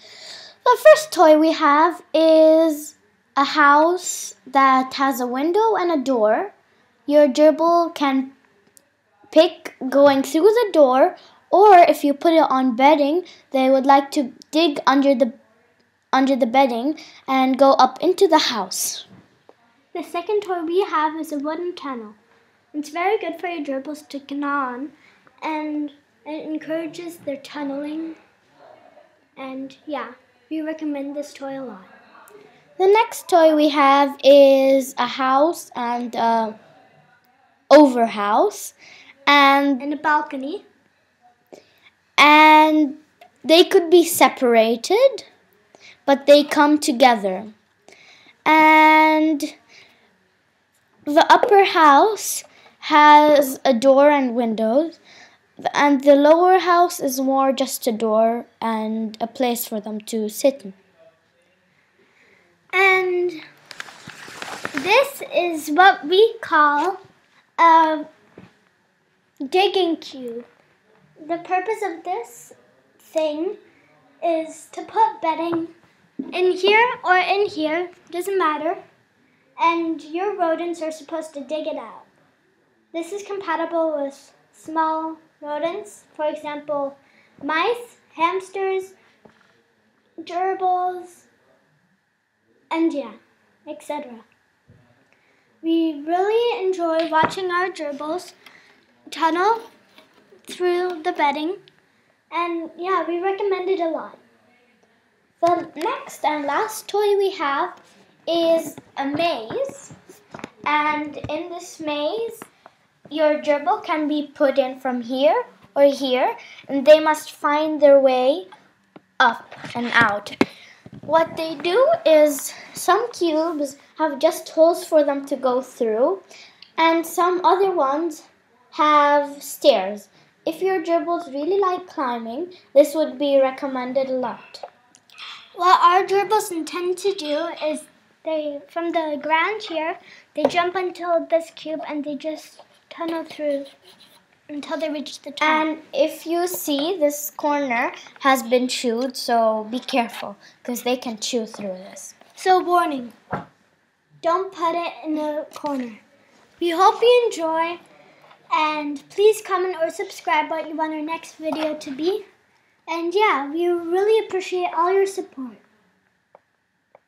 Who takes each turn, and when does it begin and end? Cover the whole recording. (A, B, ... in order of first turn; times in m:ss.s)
0:00.6-0:06.5 A
0:07.1-0:08.3 A
0:09.3-0:15.3 A
0:16.1-0:19.1 A
0:19.9-0:22.2 B
0:22.7-0:28.2 B
0:29.4-0:31.9 B
0:32.8-0:36.6 A
0:37.7-0:38.8 A
0:39.3-0:39.8 A
0:39.8-0:40.7 B
0:42.2-0:45.2 A
0:46.1-0:47.5 A
0:48.5-0:49.5 A
0:51.1-0:55.0 A
0:55.6-1:00.8 A
1:02.7-1:03.4 B
1:04.7-1:07.0 B
1:07.6-1:08.1 B
1:09.4-1:10.5 B
1:11.2-1:13.6 B
1:14.2-1:15.7 B
1:16.3-1:18.8 B
1:19.6-1:22.1 B
1:22.9-1:29.0 B
1:30.2-1:31.3 B
1:32.7-1:34.3 B
1:35.6-1:38.4 B
1:39.1-1:39.7 B
1:40.5-1:41.6 B
1:42.3-1:44.2 B
1:45.4-1:49.9 A
1:50.7-1:52.5 A
1:53.1-1:58.5 A
1:59.2-2:00.4 A
2:01.0-2:06.2 A
2:06.8-2:14.6 A
2:15.6-2:23.7 B
2:24.5-2:25.7 B
2:25.4-2:32.2 A
2:32.4-2:33.2 B
2:34.2-2:36.0 B
2:36.6-2:37.8 B
2:38.5-2:42.2 B
2:42.9-2:45.6 B